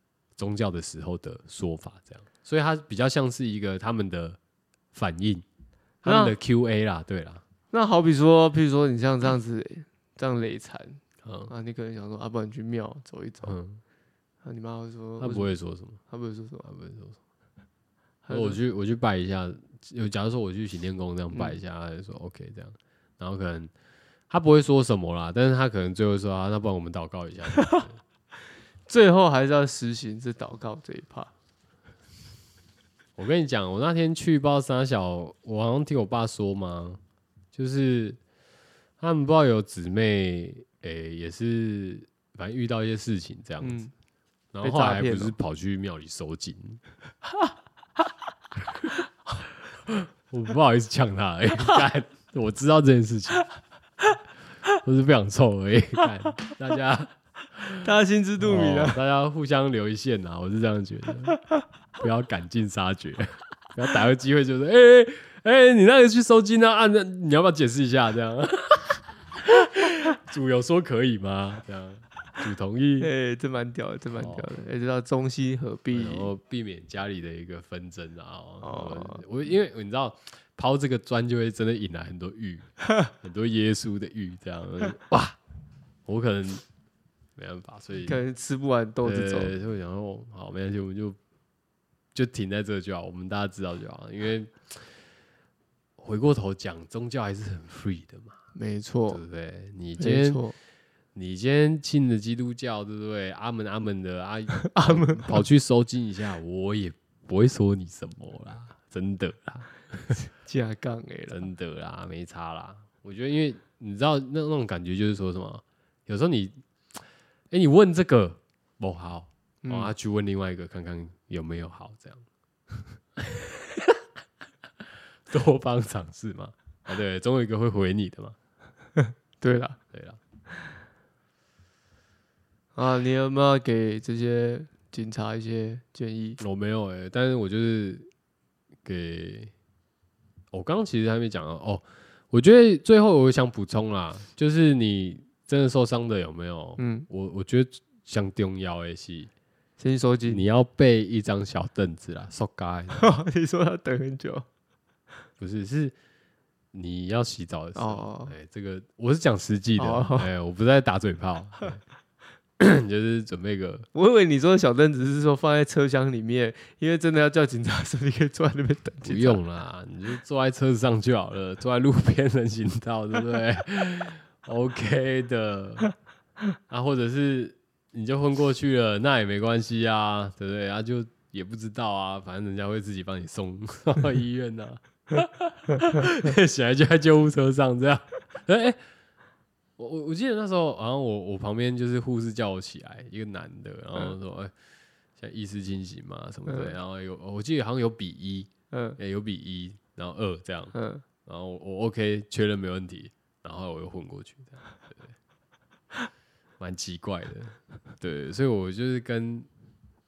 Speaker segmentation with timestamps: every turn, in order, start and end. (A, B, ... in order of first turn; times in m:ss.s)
0:00.4-0:04.4 A
0:04.9-0:05.4 A
0:06.0-0:07.4 A
0:06.0-0:06.3 B
0:07.7-0:13.6 B
0:11.2-0:11.5 A
0:13.4-0:13.8 A
0:14.4-0:15.5 B
0:15.2-0:16.0 A
0:16.0-0:16.6 B
0:16.6-0:17.2 A
0:18.2-0:18.6 B
0:18.3-0:23.7 A
0:24.3-0:28.0 A
0:28.9-0:31.3 B
0:33.2-0:37.0 A
0:37.5-0:38.2 A
0:39.0-0:43.8 A
0:43.6-0:43.9 B
0:44.5-0:46.8 A
0:44.6-0:45.4 B
0:49.9-0:53.5 A
0:54.7-0:57.8 A
0:57.8-0:59.0 B
0:58.4-1:01.4 A
1:02.0-1:13.1 A
1:13.0-1:16.3 B
1:14.2-1:14.4 A
1:15.9-1:25.4 A
1:18.6-1:19.2 B
1:26.0-1:26.6 A
1:27.4-1:28.2 A
1:28.0-1:29.5 B
1:29.0-1:31.2 A
1:32.1-1:34.8 A
1:36.0-1:38.4 A
1:38.5-1:39.2 B
1:39.1-1:40.4 A
1:40.0-1:40.5 B
1:41.1-1:50.2 A
1:44.7-1:45.4 B
1:50.2-1:51.4 B
1:51.3-1:57.0 A
1:57.5-2:02.2 A
1:59.6-1:59.9 B
2:03.2-2:04.0 A
2:05.3-2:08.4 A
2:09.0-2:09.8 B
2:09.9-2:10.2 A
2:12.7-2:16.4 B
2:16.4-2:18.1 A
2:18.8-2:19.5 A
2:20.5-2:29.3 A
2:26.8-2:27.1 B
2:29.8-2:30.4 B
2:30.3-2:33.1 A
2:32.9-2:34.4 B
2:35.4-2:35.9 A
2:36.7-2:41.8 A
2:37.8-2:38.3 B
2:39.8-2:40.3 B
2:42.6-2:43.9 A
2:43.9-2:49.4 B
2:49.0-2:55.9 A
2:56.7-3:08.8 A
3:09.8-3:14.5 A
3:15.2-3:25.1 A
3:16.5-3:16.7 B
3:18.7-3:19.0 B
3:20.7-3:21.0 B
3:26.6-3:29.5 A